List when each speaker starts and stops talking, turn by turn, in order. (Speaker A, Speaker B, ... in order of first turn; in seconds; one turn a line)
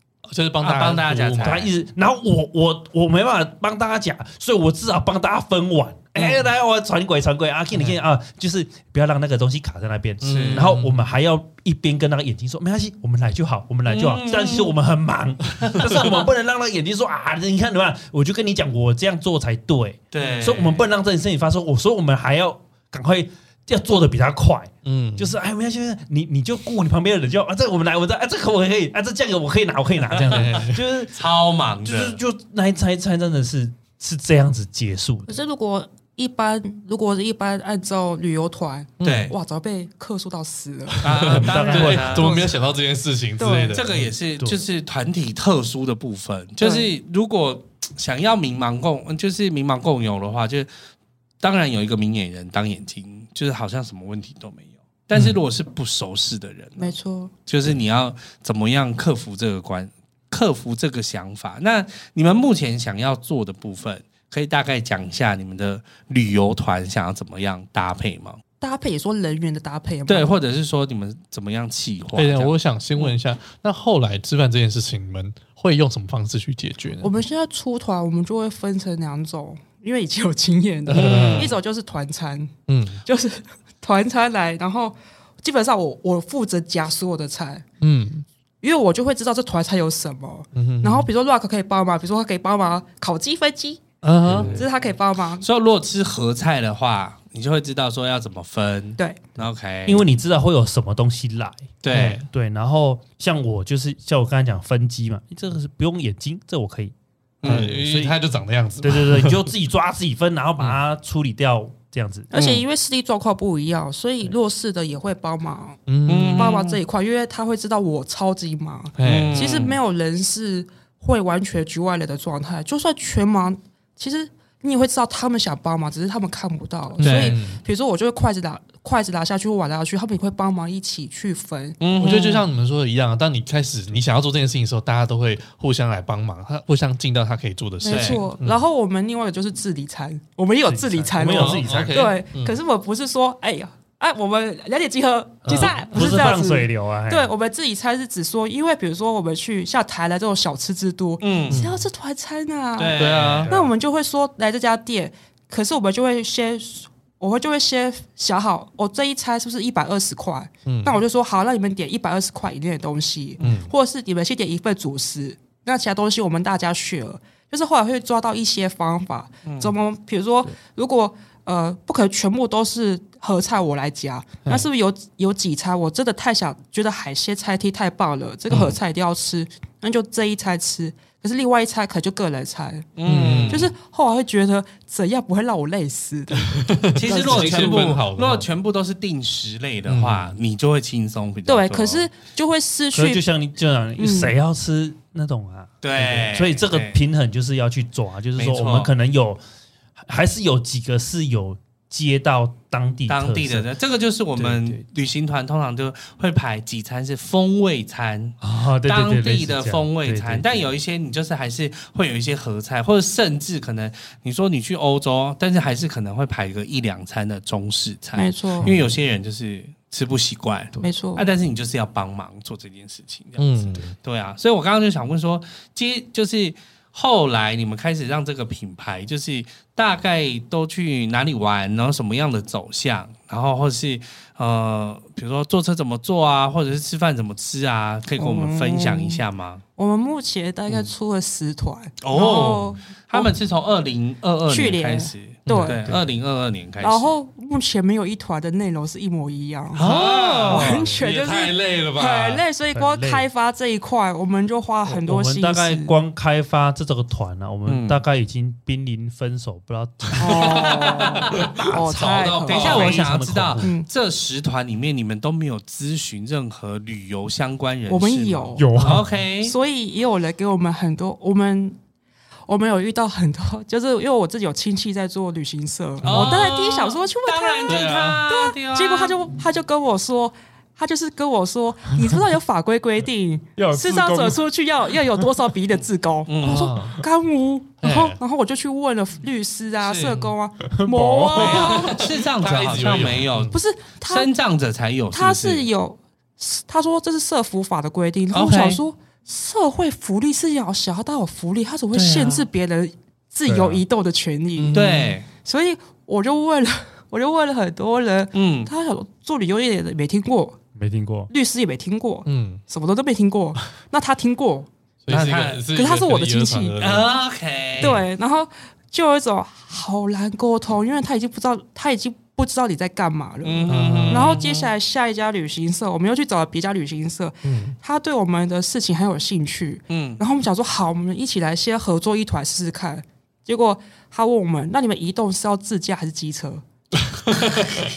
Speaker A: 0.3-1.6
Speaker B: 0.6-1.7
Speaker C: 1.4-31.1
Speaker A: 7.7-8.0
Speaker A: 10.2-11.0
Speaker B: 10.2-10.7
Speaker B: 13.9-14.7
Speaker B: 20.1-20.9
Speaker A: 24.9-25.3
Speaker A: 30.3-30.8
Speaker B: 31.1-32.2
Speaker C: 31.8-35.4
Speaker D: 35.3-41.3
Speaker A: 39.0-39.3
Speaker B: 39.0-39.3
Speaker B: 41.0-42.5
Speaker A: 41.0-44.0
Speaker C: 41.3-42.4
Speaker D: 42.1-42.5
Speaker D: 43.4-43.8
Speaker B: 43.7-50.7
Speaker D: 46.6-46.9
Speaker B: 51.4-57.0
Speaker D: 56.8-57.3
Speaker B: 57.5-68.4
Speaker D: 68.6-70.4
Speaker B: 70.1-73.1
Speaker A: 72.2-77.1
Speaker D: 77.0-82.5
Speaker A: 80.9-81.6
Speaker B: 81.0-81.5
Speaker A: 82.7-83.0
Speaker D: 83.0-87.7
Speaker A: 87.8-88.2
Speaker D: 88.6-93.8
Speaker A: 90.5-91.1
Speaker A: 94.0-94.6
Speaker B: 94.2-94.7
Speaker C: 94.3-94.6
Speaker D: 94.4-95.5
Speaker B: 95.4-100.0
Speaker C: 99.9-108.2
Speaker B: 101.8-102.2
Speaker A: 101.9-102.3
Speaker B: 107.4-107.7
Speaker A: 107.4-109.5
Speaker C: 108.8-112.3
Speaker D: 112.3-115.8
Speaker B: 112.3-112.6
Speaker A: 115.9-116.5
Speaker B: 116.1-116.8
Speaker D: 116.3-131.8
Speaker A: 119.0-119.5
Speaker B: 119.0-119.8
Speaker A: 127.0-127.6
Speaker B: 127.0-127.4
Speaker B: 131.8-132.5
Speaker A: 132.0-138.6
Speaker D: 137.8-182.9
Speaker B: 137.9-138.2
Speaker C: 140.7-142.1
Speaker A: 141.2-142.6
Speaker C: 145.4-147.3
Speaker A: 145.5-145.8
Speaker B: 151.2-151.6
Speaker A: 151.5-151.8
Speaker B: 152.8-153.5
Speaker A: 153.0-153.5
Speaker A: 160.7-161.0
Speaker A: 163.4-163.7
Speaker B: 169.4-169.7
Speaker A: 178.5-178.8
Speaker B: 183.0-183.7
Speaker A: 183.1-183.7
Speaker D: 183.5-187.8
Speaker A: 186.4-188.5
Speaker B: 186.9-192.1
Speaker A: 189.9-190.4
Speaker D: 191.5-193.2
Speaker C: 192.9-199.4
Speaker D: 194.0-194.3
Speaker B: 195.8-197.0
Speaker B: 198.4-198.9
Speaker C: 200.0-203.7
Speaker B: 203.1-239.6
Speaker C: 204.4-204.8
Speaker C: 208.4-210.7
Speaker D: 218.2-218.7
Speaker C: 218.7-218.9
Speaker D: 220.8-221.3
Speaker A: 223.4-223.9
Speaker D: 238.2-239.2
Speaker D: 239.8-243.3
Speaker B: 242.0-247.1
Speaker D: 244.5-245.7
Speaker A: 245.5-245.8
Speaker D: 246.8-255.9
Speaker B: 249.8-250.8
Speaker A: 249.8-252.4
Speaker C: 252.7-253.3
Speaker C: 254.9-261.8
Speaker B: 257.7-258.0
Speaker A: 260.2-263.0
Speaker D: 260.2-262.9
Speaker C: 262.5-263.7
Speaker B: 262.5-269.6
Speaker D: 263.6-263.9
Speaker D: 267.9-268.7
Speaker C: 268.6-269.1
Speaker A: 268.8-269.1
Speaker D: 269.4-271.8
Speaker D: 272.5-292.0
Speaker B: 276.0-279.1
Speaker A: 277.7-278.2
Speaker C: 283.6-284.4
Speaker B: 286.3-286.7
Speaker A: 286.4-287.0
Speaker A: 287.8-288.2
Speaker B: 289.8-290.2
Speaker C: 290.7-291.9
Speaker B: 291.4-295.7
Speaker A: 291.4-293.5
Speaker D: 293.5-294.3
Speaker D: 295.1-304.8
Speaker B: 298.3-298.8
Speaker B: 301.9-302.4
Speaker C: 303.5-303.8
Speaker A: 304.6-305.2
Speaker B: 304.7-305.3
Speaker D: 305.4-310.6
Speaker B: 308.3-308.7
Speaker C: 310.8-311.3
Speaker D: 311.3-314.7
Speaker A: 312.3-312.6
Speaker A: 315.1-317.1
Speaker B: 315.1-315.6
Speaker D: 315.7-316.8
Speaker B: 316.8-318.0
Speaker D: 317.8-336.6
Speaker B: 323.4-324.7
Speaker A: 323.7-324.4
Speaker A: 327.4-327.8
Speaker B: 329.9-330.2
Speaker A: 337.1-337.8